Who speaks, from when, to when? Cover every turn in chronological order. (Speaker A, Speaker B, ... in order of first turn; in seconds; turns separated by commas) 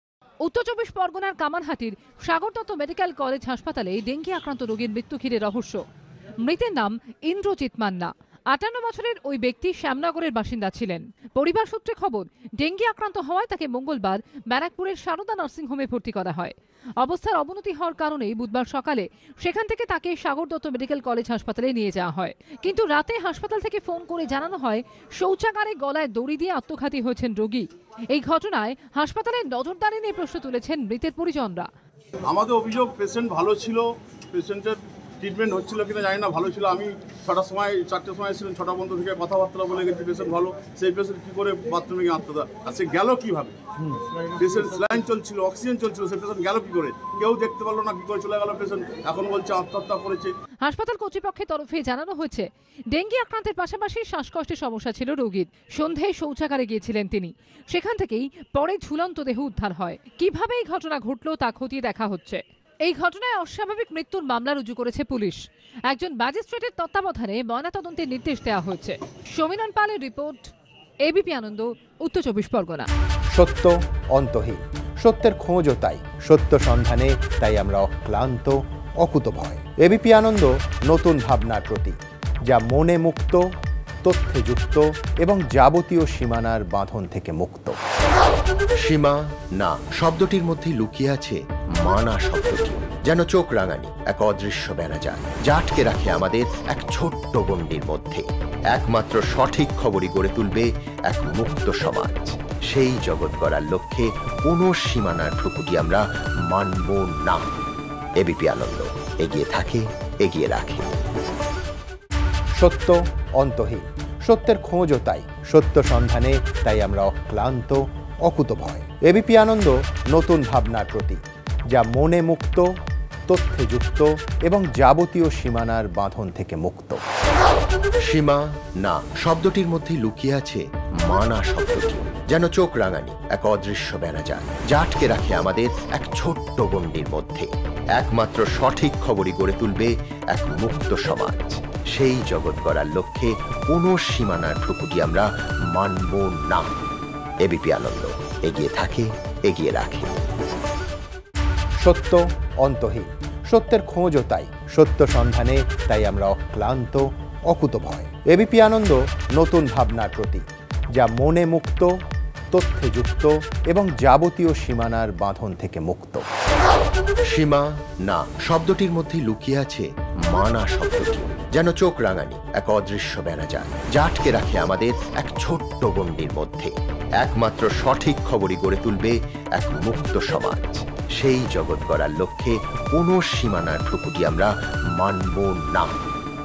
Speaker A: 0.4-5.8, Speaker A: 6.4-31.7, Speaker B: 32.2-43.6, Speaker B: 44.4-50.3, Speaker A: 50.6-70.5, Speaker A: 71.0-72.9, Speaker C: 73.3-82.0, Speaker C: 82.5-83.5, Speaker C: 84.0-87.8, Speaker D: 88.8-107.5, Speaker D: 108.2-110.9, Speaker C: 112.5-122.7, Speaker C: 123.3-127.0, Speaker D: 128.1-146.7, Speaker D: 147.4-150.2, Speaker C: 151.8-161.9, Speaker C: 162.5-166.2, Speaker D: 167.2-186.0